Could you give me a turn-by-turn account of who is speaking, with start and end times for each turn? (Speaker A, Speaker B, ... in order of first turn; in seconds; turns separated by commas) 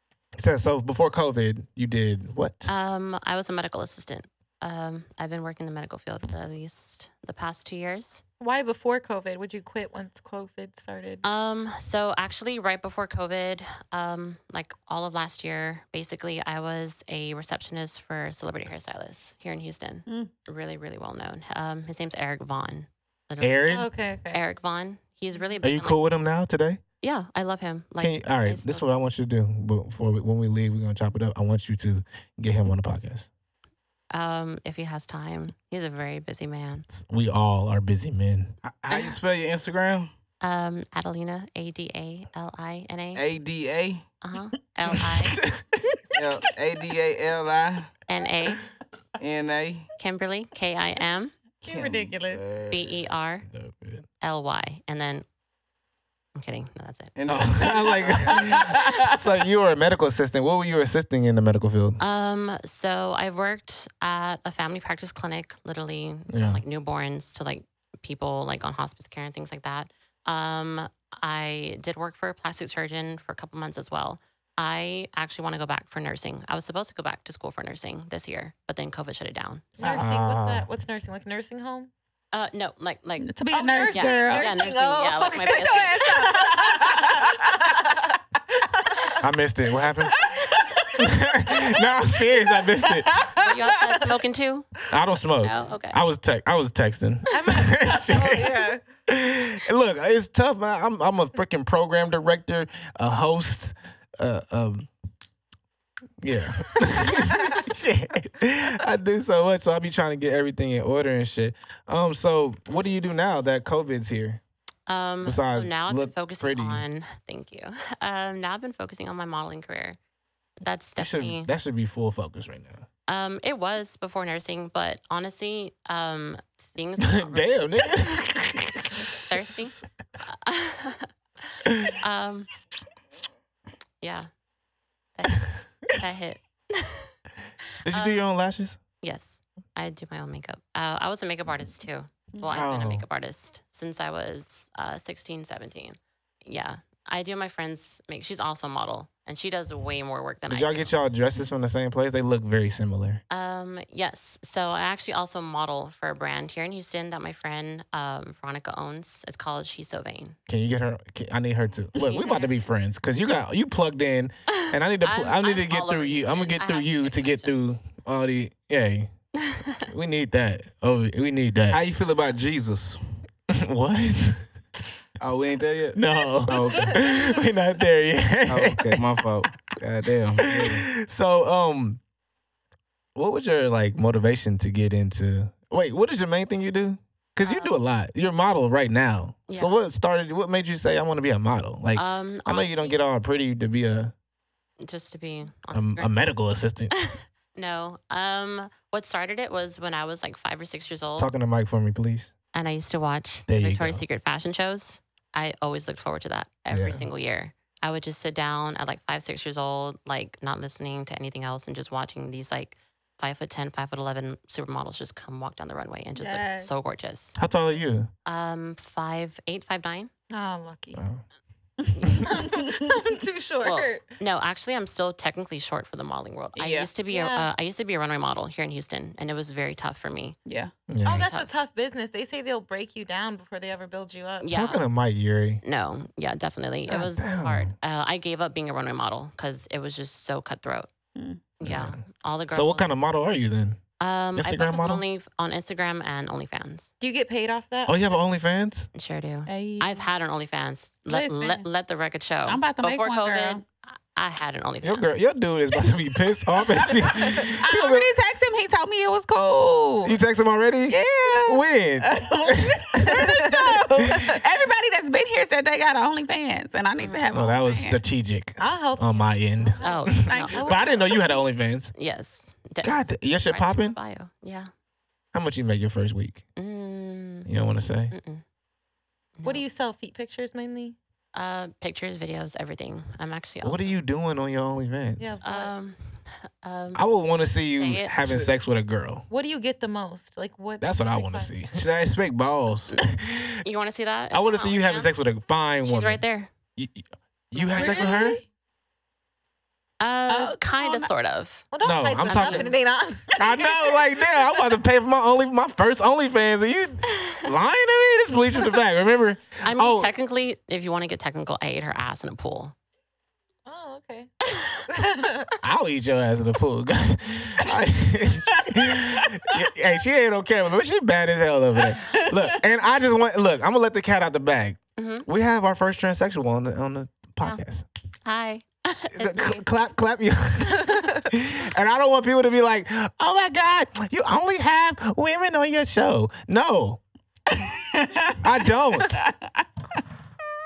Speaker A: 0.4-2.7, Speaker B: 2.7-8.2, Speaker C: 8.4-11.2, Speaker B: 11.2-23.8, Speaker A: 23.4-23.9, Speaker C: 23.7-24.4, Speaker B: 24.3-26.0, Speaker A: 25.6-26.8, Speaker B: 27.0-28.9, Speaker A: 28.0-33.3, Speaker B: 34.1-36.9, Speaker A: 36.9-38.6, Speaker D: 38.6-40.1, Speaker B: 38.9-39.2, Speaker B: 40.4-43.2, Speaker D: 43.1-44.0, Speaker B: 44.2-45.4, Speaker D: 46.1-47.9, Speaker B: 48.1-48.6, Speaker D: 49.2-49.9, Speaker B: 50.0-51.3, Speaker E: 51.6-52.4, Speaker D: 51.7-53.1, Speaker B: 52.7-53.5, Speaker A: 53.5-54.0, Speaker B: 54.2-55.2, Speaker B: 56.4-58.4, Speaker D: 57.2-59.1, Speaker A: 57.3-62.0, Speaker B: 62.0-80.0, Speaker A: 66.3-66.6, Speaker C: 79.8-81.9, Speaker A: 79.8-80.7, Speaker B: 82.3-83.3, Speaker E: 83.2-87.4, Speaker C: 83.5-87.6, Speaker B: 83.9-86.3, Speaker A: 89.2-90.3, Speaker E: 90.2-90.9, Speaker A: 91.0-93.1, Speaker B: 93.3-94.8, Speaker A: 94.9-104.9, Speaker B: 95.4-96.0, Speaker C: 97.3-98.8, Speaker A: 106.2-114.4, Speaker B: 114.9-120.0, Speaker A: 115.2-116.8, Speaker B: 120.6-121.5, Speaker A: 121.0-122.8, Speaker B: 123.1-128.0, Speaker A: 127.0-129.0, Speaker B: 129.2-131.1, Speaker A: 131.7-131.9, Speaker B: 132.0-132.5, Speaker B: 134.0-134.3, Speaker B: 135.2-137.1, Speaker A: 137.8-138.8, Speaker B: 137.9-138.2, Speaker B: 139.0-150.9, Speaker A: 142.5-143.0, Speaker A: 150.5-153.2, Speaker B: 153.3-160.4, Speaker A: 160.5-169.1, Speaker B: 161.9-162.6, Speaker B: 164.5-167.7, Speaker B: 169.4-169.8, Speaker A: 169.8-171.8, Speaker D: 171.7-173.0, Speaker A: 173.5-174.5, Speaker D: 175.2-177.0, Speaker A: 175.9-179.0, Speaker D: 178.5-180.9, Speaker A: 180.4-182.0, Speaker A: 183.2-194.1, Speaker B: 187.4-187.8, Speaker B: 189.5-189.8, Speaker B: 191.9-193.0, Speaker B: 194.8-196.2, Speaker A: 195.7-196.9, Speaker B: 197.0-201.3, Speaker A: 201.2-202.3, Speaker B: 202.5-217.4, Speaker A: 203.5-204.0, Speaker A: 206.7-207.1, Speaker E: 216.2-216.7, Speaker A: 217.4-218.1, Speaker B: 218.3-220.1, Speaker C: 220.3-221.0, Speaker A: 220.9-221.2, Speaker E: 221.8-222.9, Speaker B: 221.9-222.3, Speaker C: 222.2-224.1, Speaker B: 223.6-230.4, Speaker E: 226.6-226.9, Speaker C: 227.1-227.5, Speaker E: 230.5-230.7, Speaker A: 230.9-231.3, Speaker C: 231.0-234.5, Speaker B: 231.1-231.5, Speaker B: 234.4-234.8, Speaker A: 234.5-235.6, Speaker B: 235.6-240.9, Speaker A: 236.9-237.7, Speaker B: 241.6-242.9, Speaker A: 241.6-242.0, Speaker A: 242.5-243.8, Speaker B: 244.0-246.9, Speaker A: 244.4-245.0, Speaker C: 247.0-248.0, Speaker A: 247.9-248.9, Speaker B: 248.9-255.1, Speaker E: 249.5-250.0, Speaker E: 251.1-251.7, Speaker E: 252.5-253.6, Speaker A: 254.8-258.1, Speaker E: 256.8-260.2, Speaker A: 260.0-264.3, Speaker E: 260.9-268.0, Speaker B: 267.0-267.3, Speaker A: 267.3-271.9, Speaker C: 268.6-271.2, Speaker B: 269.8-270.9, Speaker E: 270.3-270.6, Speaker B: 271.9-274.7, Speaker A: 272.8-274.0, Speaker A: 275.3-276.4, Speaker B: 276.6-277.5, Speaker A: 277.4-278.1, Speaker B: 278.1-278.4, Speaker B: 279.4-279.6, Speaker C: 279.4-281.0, Speaker B: 281.3-284.0, Speaker A: 283.6-285.4, Speaker C: 285.2-285.7, Speaker B: 285.4-287.0, Speaker A: 286.9-289.3, Speaker B: 287.8-288.1, Speaker D: 288.2-288.5, Speaker C: 289.3-291.6, Speaker A: 290.8-291.8, Speaker D: 291.7-293.0, Speaker B: 293.0-295.3, Speaker A: 293.1-293.6, Speaker A: 294.3-296.2, Speaker B: 295.8-296.5, Speaker A: 296.8-298.4, Speaker B: 297.6-298.0, Speaker C: 297.7-298.4, Speaker E: 297.8-298.2, Speaker B: 300.0-301.7, Speaker E: 300.3-301.0, Speaker C: 300.3-300.9, Speaker C: 301.7-304.5, Speaker A: 301.8-302.7, Speaker B: 302.2-302.7, Speaker A: 303.4-310.1, Speaker B: 309.6-312.8, Speaker C: 313.7-314.3, Speaker C: 314.9-315.6, Speaker A: 315.6-327.9, Speaker B: 325.0-325.3, Speaker B: 328.2-329.6, Speaker A: 329.2-337.0, Speaker E: 337.5-338.4, Speaker A: 338.4-339.2, Speaker E: 339.0-339.5